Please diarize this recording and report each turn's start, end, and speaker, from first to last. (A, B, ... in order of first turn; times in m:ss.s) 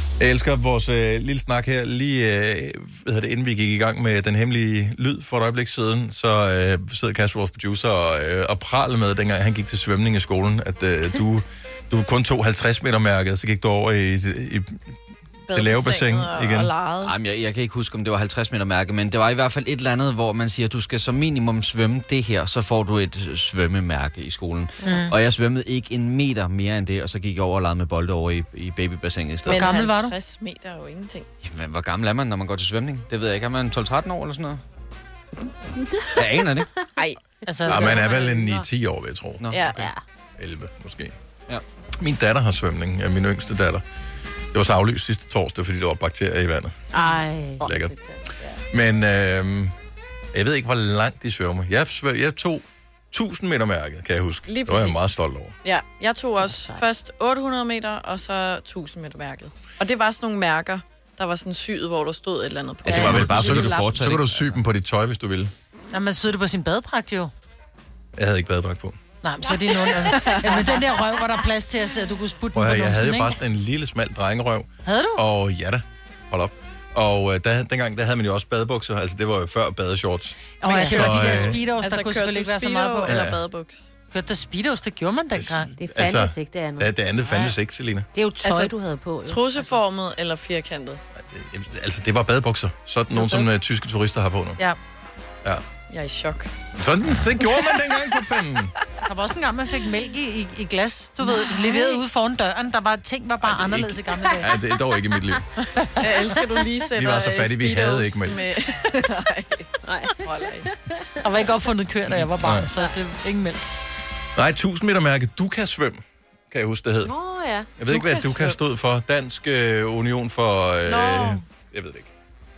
0:00.2-0:14.9 A
0:15.5-0:17.2 B
0:15.5-0:16.7 A
0:17.0-0:29.6 C
0:24.8-0:25.2 D
0:29.4-0:31.3 B
0:29.5-0:30.2 D
0:31.4-0:34.6 C
0:36.2-0:36.7 C
0:37.0-0:38.2 B
0:37.5-0:37.8 D
0:37.7-0:39.5 A
0:37.7-0:38.6 E
0:39.4-0:39.8 C
0:39.5-0:39.9 B
0:39.8-0:40.0 E
0:40.4-0:41.2 A
0:42.0-0:43.8 A
0:44.5-0:46.8 A
0:46.9-0:47.7 E
0:47.6-0:48.0 A
0:47.6-0:48.6 B
0:48.7-0:49.8 A
0:50.3-0:55.6 A
0:54.5-1:03.9 B
0:56.4-0:56.9 E
1:02.8-1:04.6 C
1:02.9-1:05.5 A
1:05.9-1:07.3 D
1:08.2-1:09.0 A
1:09.2-1:13.3 D
1:09.5-1:10.8 B
1:12.5-1:21.6 A
1:14.9-1:15.2 D
1:20.6-1:23.2 D
1:20.6-1:23.9 B
1:20.7-1:21.1 E
1:23.0-1:23.4 A
1:24.1-1:25.7 D
1:25.4-1:28.1 A
1:25.8-1:26.9 E
1:27.3-1:27.5 D
1:28.1-1:29.7 E
1:28.4-1:28.8 B
1:29.3-1:31.0 B
1:31.3-1:34.6 A
1:35.9-1:36.5 B
1:36.8-1:38.8 A
1:39.0-1:44.4 D
1:41.5-1:42.0 E
1:43.4-1:45.5 A
1:45.7-1:46.1 D
1:46.0-1:49.7 B
1:46.9-1:48.5 A
1:49.8-1:51.4 E
1:50.2-1:50.7 B
1:51.2-1:53.6 D
1:52.1-1:52.7 A
1:54.4-1:57.2 A
1:57.0-1:57.8 E
1:57.8-2:02.1 A
1:57.9-1:58.6 B
2:00.9-2:01.4 B